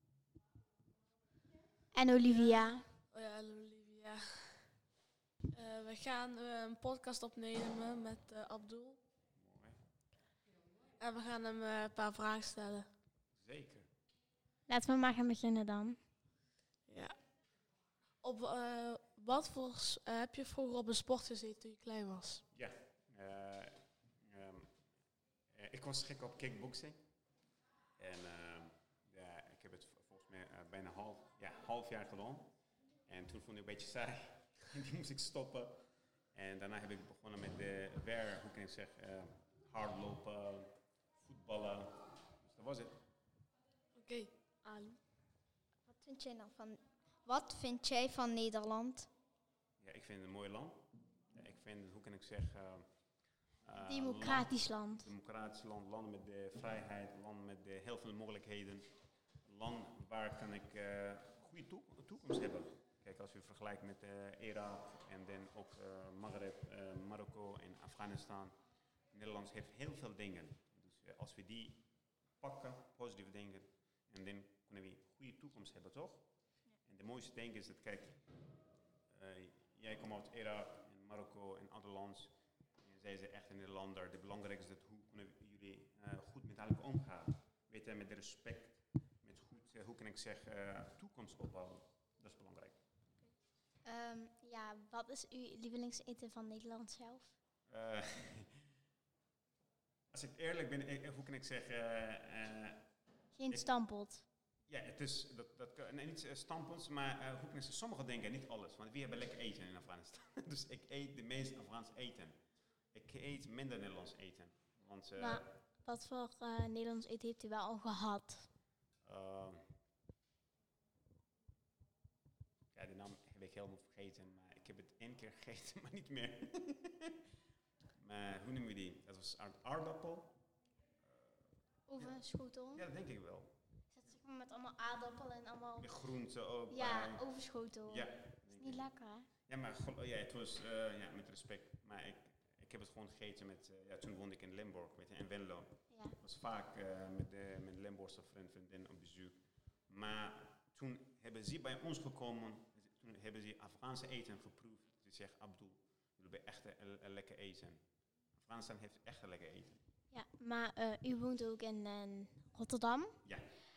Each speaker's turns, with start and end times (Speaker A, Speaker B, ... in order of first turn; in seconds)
Speaker A: 1.9-2.9, 14.7-16.0, 45.9-49.1, 53.8-55.1, 93.8-97.3, 103.3-104.2, 115.2-118.5, 131.9-132.8, 133.9-135.9, 136.7-139.3, 145.9-146.2, 160.1-163.2
Speaker B: 2.2-4.8, 5.5-9.0, 11.0-12.9, 16.9-17.2, 18.2-22.4, 43.9-45.0
Speaker C: 9.3-9.8, 13.4-13.9, 22.5-24.7, 25.5-27.0, 28.0-43.0, 49.8-58.9, 59.4-68.5, 69.1-76.3, 76.8-78.2, 79.1-92.8, 97.7-98.7, 100.1-102.9, 104.7-112.4, 112.9-115.5, 119.0-119.7, 122.7-127.2, 128.0-130.4, 131.0-132.2, 132.7-133.6, 135.8-137.2, 137.9-138.9, 139.4-157.8, 158.3-159.8, 163.2-163.5